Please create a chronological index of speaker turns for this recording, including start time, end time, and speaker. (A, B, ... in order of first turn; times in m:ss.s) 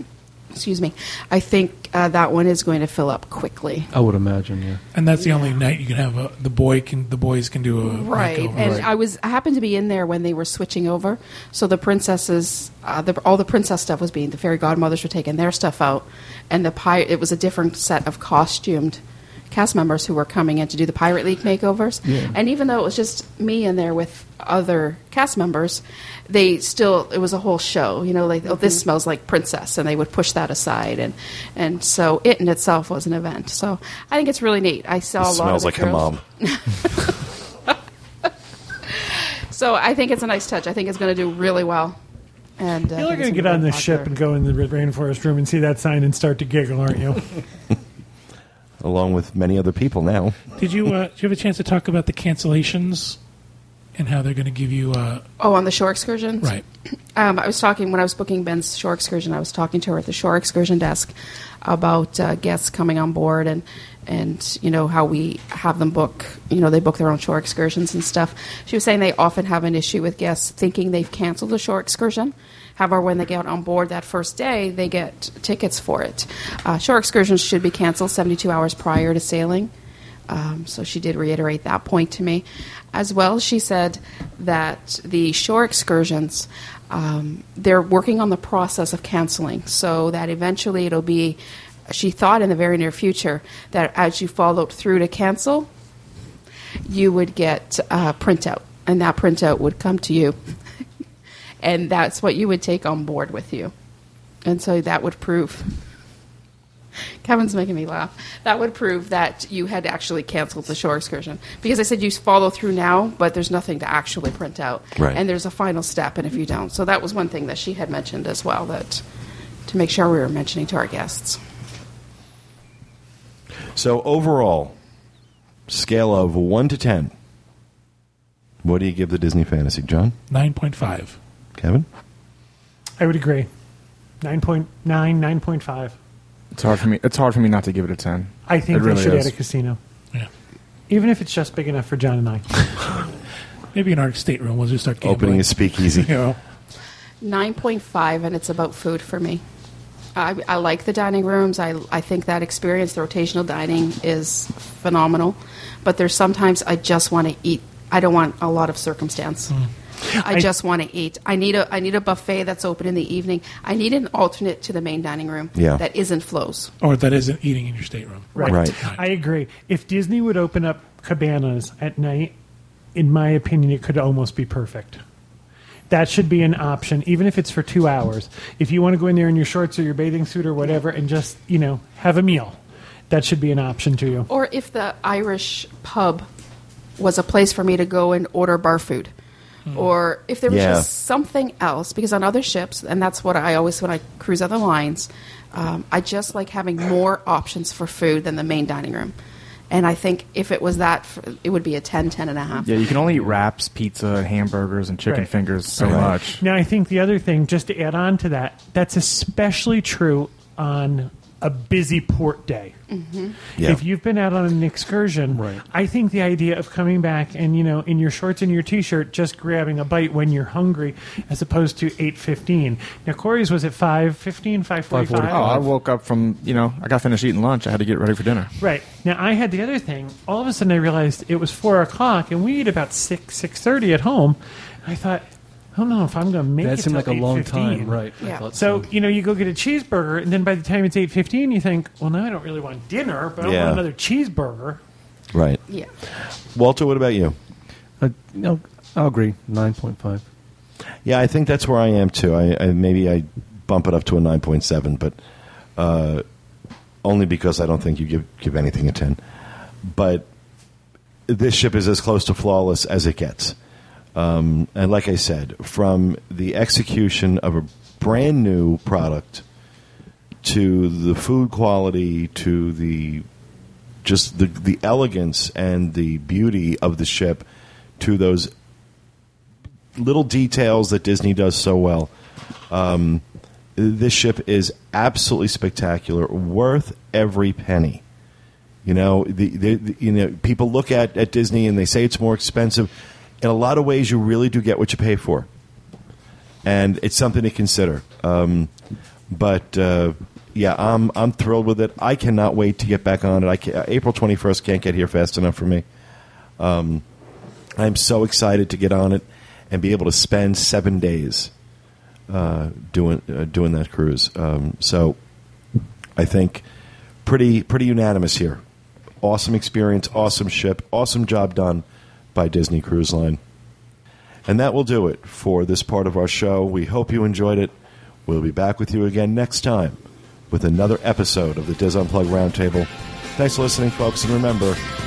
0:00.5-0:03.9 A
0:03.9-0:04.8 B
0:04.9-0:08.9 C
0:05.2-0:05.6 A
0:07.8-0:19.0 A
0:19.5-0:38.3 A
0:35.2-0:36.2 D
0:38.9-0:42.0 A
0:42.6-0:44.1 A
0:42.9-0:47.4 E
0:48.8-0:50.4 D
0:50.6-0:53.2 C
0:54.0-0:55.2 C
0:55.4-0:56.6 A
0:57.2-1:01.1 A
1:01.6-1:19.7 A
1:20.3-1:35.7 A
1:36.9-1:40.4 A
1:41.6-1:43.7 A
1:44.4-1:45.7 A
1:47.2-1:59.0 A
1:59.7-2:01.4 A
2:03.8-2:04.8 D
2:05.7-2:07.1 D
2:08.6-2:10.2 D
2:10.3-2:11.2 C
2:11.6-2:11.9 D
2:13.0-2:13.5 E
2:14.2-2:16.0 E
2:16.5-2:19.3 F
2:18.5-2:19.8 E
2:20.9-2:22.5 E
2:23.7-2:26.4 C
2:25.0-2:26.1 D
2:27.2-2:29.4 A
2:30.2-2:39.5 A
2:40.2-2:46.7 A
2:40.2-2:40.5 E
2:45.6-2:45.8 D
2:46.8-2:49.0 C
2:48.4-2:52.3 E
2:48.5-2:48.8 D
2:53.0-2:55.0 E
2:55.9-3:02.6 E
3:03.1-3:04.3 E
3:04.3-3:06.3 A
3:07.0-3:09.1 A
3:09.7-3:19.1 A
3:10.5-3:10.9 D
3:19.7-3:22.9 A
3:22.6-3:26.4 F
3:25.1-3:32.8 E
3:25.8-3:26.2 D
3:32.9-3:33.4 A
3:33.6-3:45.6 E
3:35.3-3:35.6 B
3:44.9-3:45.7 B
3:45.3-3:48.5 F
3:48.6-4:04.8 E
3:56.6-3:58.9 B
4:03.4-4:03.8 D
4:05.3-4:05.6 D
4:06.6-4:07.4 D
4:08.0-4:10.2 B
4:11.0-4:15.2 D
4:15.8-4:16.2 D
4:17.0-4:19.2 D
4:19.8-4:20.3 D
4:21.3-4:23.6 D
4:24.2-4:29.4 D
4:30.4-4:33.3 D
4:34.0-4:37.4 D
4:38.0-4:38.5 D
4:40.0-4:42.1 D
4:42.7-4:43.2 D
4:43.8-4:48.0 D
4:48.9-4:52.9 D
4:53.4-4:55.5 D
4:56.6-4:58.7 D
4:59.3-5:05.8 D
5:06.6-5:07.0 D
5:07.8-5:11.5 D
5:12.3-5:15.2 D
5:16.2-5:16.6 D
5:17.2-5:18.6 D
5:19.2-5:21.8 D
5:22.4-5:23.4 D
5:24.5-5:27.7 D
5:28.3-5:34.8 D